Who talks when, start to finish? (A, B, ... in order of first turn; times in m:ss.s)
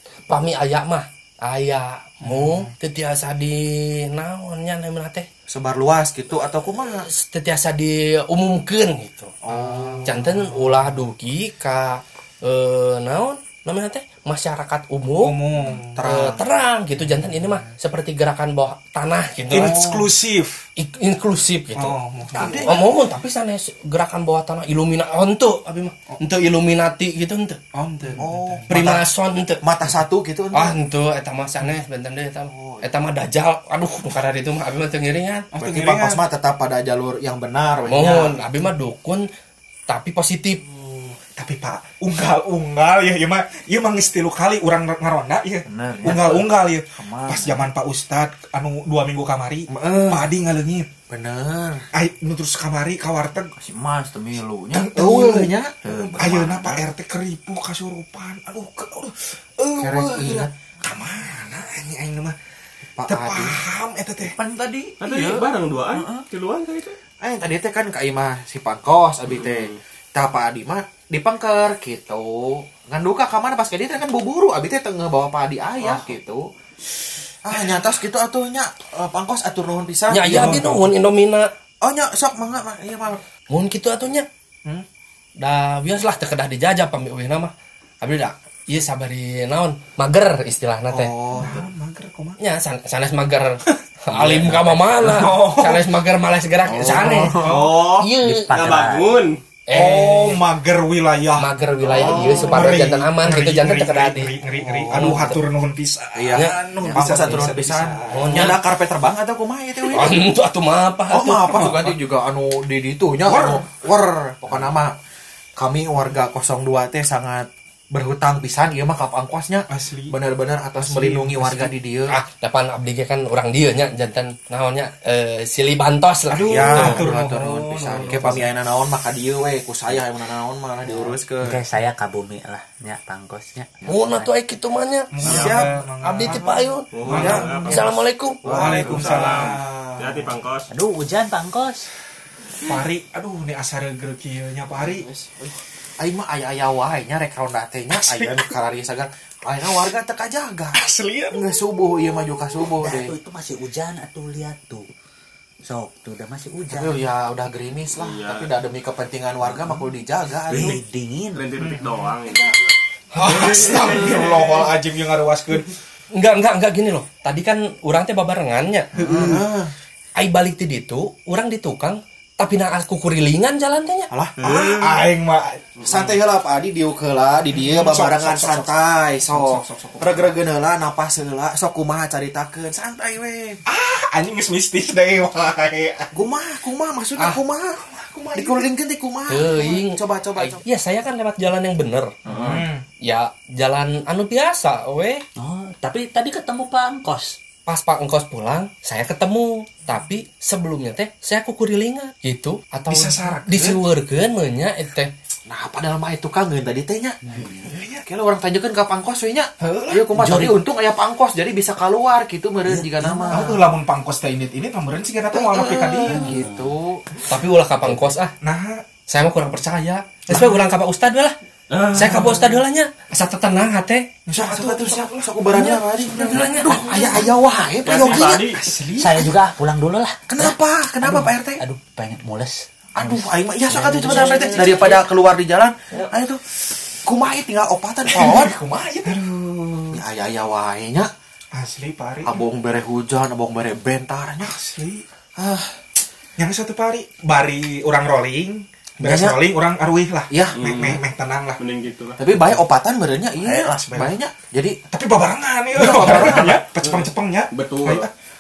0:00.3-0:05.3 A
0:02.2-0:02.7 B
0:05.5-0:07.1 C
0:07.0-0:09.4 A
0:09.4-0:10.2 C
0:09.5-0:10.9 B
0:10.0-0:15.4 A
0:15.2-0:16.0 B
0:16.0-0:16.4 C
0:16.0-0:19.8 A
0:19.5-0:20.6 B
0:19.5-0:20.1 C
0:20.8-0:28.2 A
0:21.8-0:22.9 B
0:22.3-0:22.8 C
0:27.7-0:28.7 B
0:28.2-0:29.0 C
0:28.7-0:29.6 A
0:29.6-0:30.8 C
0:30.5-0:35.5 A
0:32.5-0:32.9 C
0:35.5-0:36.2 B
0:35.6-0:38.4 C
0:37.9-0:39.3 A
0:39.9-0:40.6 A
0:41.2-0:50.9 B
0:45.7-0:47.6 D
0:46.0-0:46.4 C
0:49.7-0:50.3 C
0:51.1-0:51.9 C
0:51.9-0:53.5 B
0:53.5-0:55.0 D
0:54.7-1:02.4 B
0:54.9-0:56.8 C
0:55.8-0:56.6 D
0:59.8-1:00.5 C
1:03.0-1:03.6 C
1:03.1-1:04.4 B
1:04.2-1:05.4 D
1:05.0-1:07.0 E
1:07.2-1:16.5 C
1:09.4-1:09.7 E
1:17.4-1:20.8 C
1:17.5-1:17.8 B
1:20.1-1:21.5 A
1:20.3-1:20.7 B
1:21.8-1:23.2 C
1:23.5-1:24.3 A
1:25.4-1:31.1 A
1:30.9-1:31.7 C
1:31.4-1:32.4 B
1:32.4-1:37.4 A
1:34.2-1:35.9 B
1:36.7-1:37.6 C
1:36.9-1:37.8 B
1:37.3-1:39.4 E
1:37.9-1:39.2 F
1:38.0-1:38.4 A
1:39.7-1:40.4 A
1:39.7-1:48.6 B
1:41.4-1:44.3 A
1:41.9-1:42.8 C
1:44.5-1:45.4 C
1:44.9-1:45.4 A
1:46.2-1:50.2 C
1:46.4-1:47.3 A
1:48.1-1:48.6 A
1:49.9-1:51.8 A
1:51.1-1:54.9 C
1:51.4-1:52.0 B
1:53.2-1:53.7 B
1:54.5-1:54.8 B
1:55.6-2:02.2 C
1:59.7-2:00.2 B
2:00.8-2:01.7 B
2:02.1-2:07.1 A
2:06.3-2:08.6 B
2:06.4-2:11.6 C
2:11.0-2:14.3 F
2:13.8-2:18.7 A
2:15.1-2:17.8 B
2:15.2-2:15.6 E
2:15.2-2:15.7 C
2:16.9-2:20.7 E
2:17.1-2:19.6 C
2:18.4-2:20.3 B
2:20.7-2:21.9 F
2:22.6-2:25.1 B
2:26.0-2:30.8 C
2:27.9-2:28.5 B
2:30.7-2:31.6 B
2:31.3-2:33.2 C
2:32.8-2:34.9 F
2:35.6-2:37.0 F
2:36.7-2:40.8 C
2:38.0-2:38.5 E
2:40.5-2:41.6 F
2:40.5-2:40.8 E
2:41.4-2:42.5 E
2:41.6-2:42.0 B
2:42.2-2:42.6 C
2:43.2-2:44.2 A
2:43.2-2:45.8 B
2:46.1-2:49.3 A
2:49.0-2:49.7 C
2:49.1-2:49.4 B
2:50.2-2:54.1 A
2:54.1-2:55.1 C
2:54.4-2:56.1 B
2:55.8-3:03.6 C
2:57.5-2:58.7 B
2:59.3-3:00.3 B
3:03.7-3:06.2 B
3:06.1-3:10.6 C
3:07.2-3:08.7 B
3:09.3-3:12.1 A
3:12.3-3:12.8 B
3:12.3-3:12.6 C
3:13.0-3:15.2 A
3:15.4-3:17.4 F
3:17.7-3:25.1 A
3:22.9-3:23.8 B
3:25.5-3:33.7 C
3:27.3-3:27.6 F
3:27.6-3:28.0 B
3:29.6-3:30.4 B
3:30.2-3:30.6 A
3:32.8-3:36.4 B
3:35.3-3:37.1 C
3:36.1-3:36.7 F
3:37.3-3:38.3 A
3:38.4-3:38.8 B
3:39.1-3:41.4 A
3:40.3-3:40.6 B
3:41.7-3:42.6 B
3:41.9-3:44.1 A
3:44.3-3:45.8 B
3:44.4-3:48.5 C
3:45.5-3:47.2 A
3:46.3-3:47.3 B
3:47.8-3:48.6 E
3:47.9-3:49.3 B
3:49.0-3:55.1 F
3:50.3-3:51.6 C
3:53.0-3:56.4 C
3:57.0-3:59.1 C
3:58.1-4:00.0 B
3:59.9-4:01.1 C
4:01.5-4:02.4 B
4:02.2-4:04.6 C
4:04.4-4:05.0 B
4:05.4-4:05.8 C
4:06.4-4:11.6 B
4:09.0-4:09.4 C
4:10.3-4:11.0 C
4:10.6-4:11.0 E
4:11.6-4:12.2 E
4:12.2-4:14.8 C
4:13.4-4:14.2 B
4:14.9-4:18.1 B
4:15.8-4:16.6 C
4:15.9-4:18.1 E